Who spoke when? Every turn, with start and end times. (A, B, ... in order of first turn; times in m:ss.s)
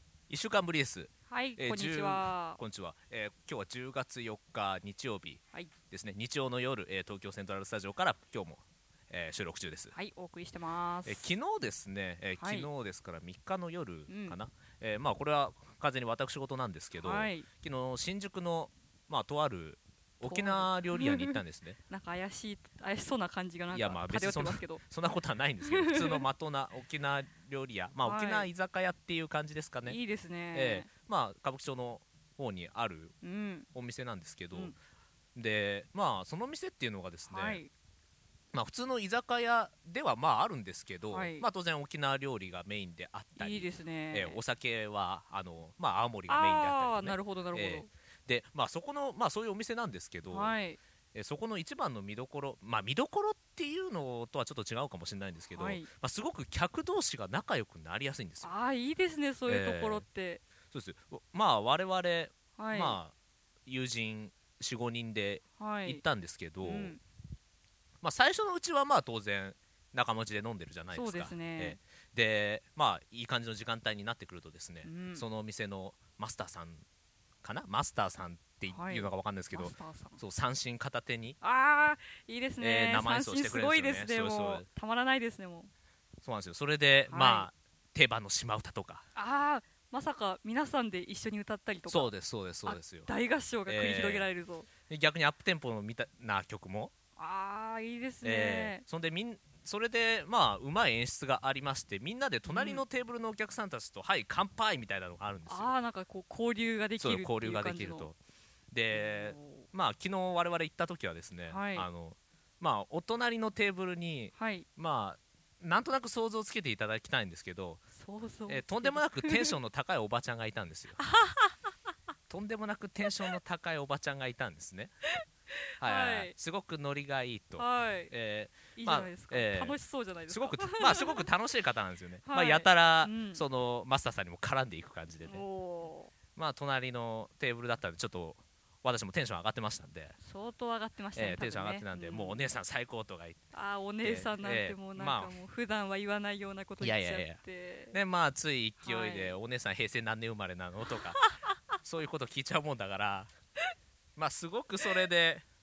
0:00.3-0:09.9 A
0:01.3-0:02.6 B
0:09.9-0:11.3 B
0:11.0-0:21.8 A
0:12.4-0:12.7 B
0:14.1-0:14.4 B
0:17.0-0:17.5 B
0:20.2-0:24.8 B
0:23.7-0:30.0 A
0:25.6-0:26.3 B
0:28.0-0:28.5 B
0:29.8-0:30.9 B
0:30.5-0:33.2 A
0:33.2-0:33.7 B
0:33.7-0:34.7 A
0:34.5-0:34.8 B
0:35.4-0:37.6 A
0:37.3-0:37.7 B
0:38.5-0:50.6 A
0:41.1-0:41.5 B
0:43.4-0:44.4 B
0:46.3-0:47.9 B
0:50.3-0:50.8 B
0:51.1-0:58.6 A
0:55.5-0:55.9 B
0:58.4-1:00.4 B
0:59.5-1:00.0 A
1:00.7-1:03.1 A
1:02.6-1:03.0 B
1:03.6-1:07.0 A
1:05.6-1:06.0 B
1:06.6-1:07.0 B
1:08.0-1:16.8 A
1:10.9-1:11.8 B
1:14.8-1:15.3 B
1:17.4-1:21.4 A
1:18.7-1:20.2 B
1:21.4-1:25.7 B
1:22.6-1:24.7 A
1:26.2-1:29.1 A
1:27.1-1:27.5 B
1:29.2-1:32.1 B
1:31.9-1:33.1 A
1:32.6-1:34.7 B
1:33.7-1:34.3 A
1:34.9-1:36.9 A
1:37.2-1:38.8 B
1:38.2-1:45.7 A
1:42.5-1:42.8 B
1:45.5-1:48.1 B
1:47.0-1:48.2 A
1:48.7-1:57.8 A
1:48.9-1:49.7 B
1:51.4-1:51.9 B
1:54.3-1:54.7 B
1:57.9-1:59.5 B
1:58.5-2:01.0 A
2:01.0-2:01.6 B
2:02.3-2:04.9 A
2:05.8-2:09.8 A
2:05.8-2:06.3 B
2:07.6-2:08.1 B
2:08.7-2:11.3 B
2:10.3-2:15.4 A
2:12.2-2:13.4 B
2:15.2-2:16.1 B
2:16.4-2:20.2 A
2:20.2-2:22.5 B
2:21.2-2:23.4 A
2:23.5-2:28.0 B
2:24.0-2:25.4 A
2:26.8-2:31.2 A
2:28.8-2:29.4 B
2:31.8-2:33.3 A
2:34.2-2:35.4 A